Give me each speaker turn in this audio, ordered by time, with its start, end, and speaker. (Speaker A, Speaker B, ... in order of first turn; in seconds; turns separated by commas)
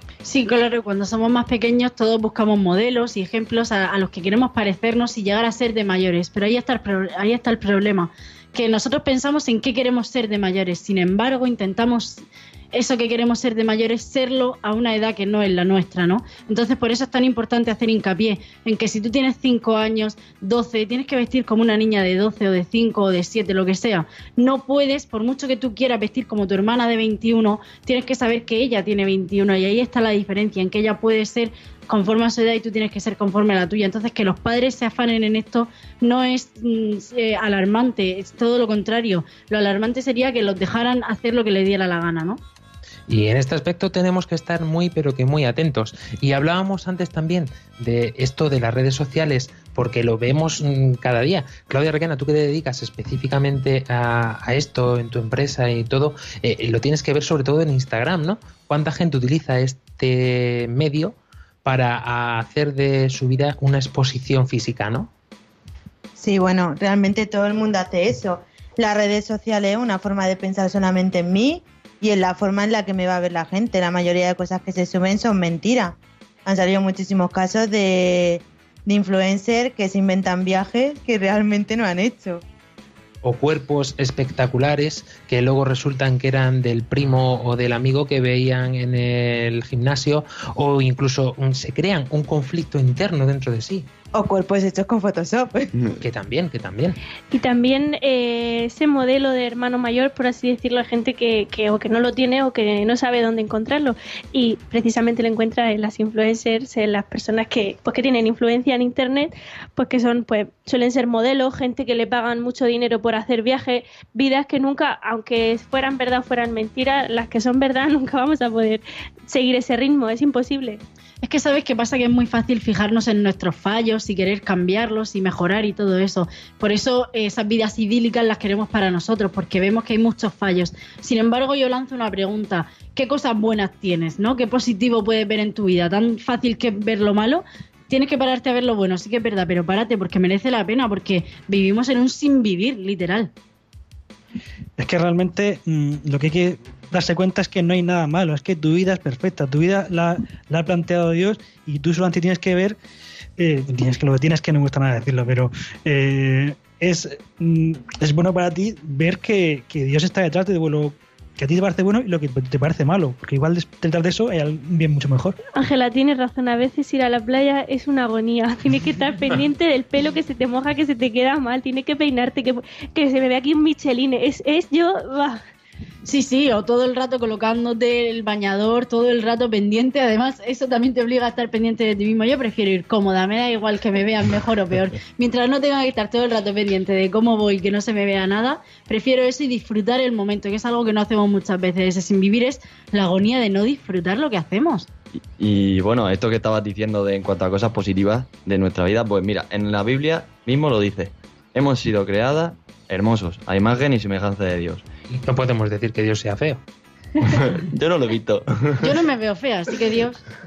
Speaker A: 0.2-42.4, Speaker B: 43.1-65.1, Speaker C: 66.2-82.4, Speaker B: 83.2-93.9, Speaker C: 94.1-95.8, Speaker B: 96.0-97.0, Speaker D: 97.3-120.8, Speaker A: 121.2-143.3, Speaker E: 144.8-152.8, Speaker E: 153.4-165.4, Speaker D: 165.5-175.4, Speaker A: 176.1-194.9, Speaker F: 195.2-204.8, Speaker B: 205.1-206.6, Speaker F: 207.3-208.8, Speaker A: 208.8-210.2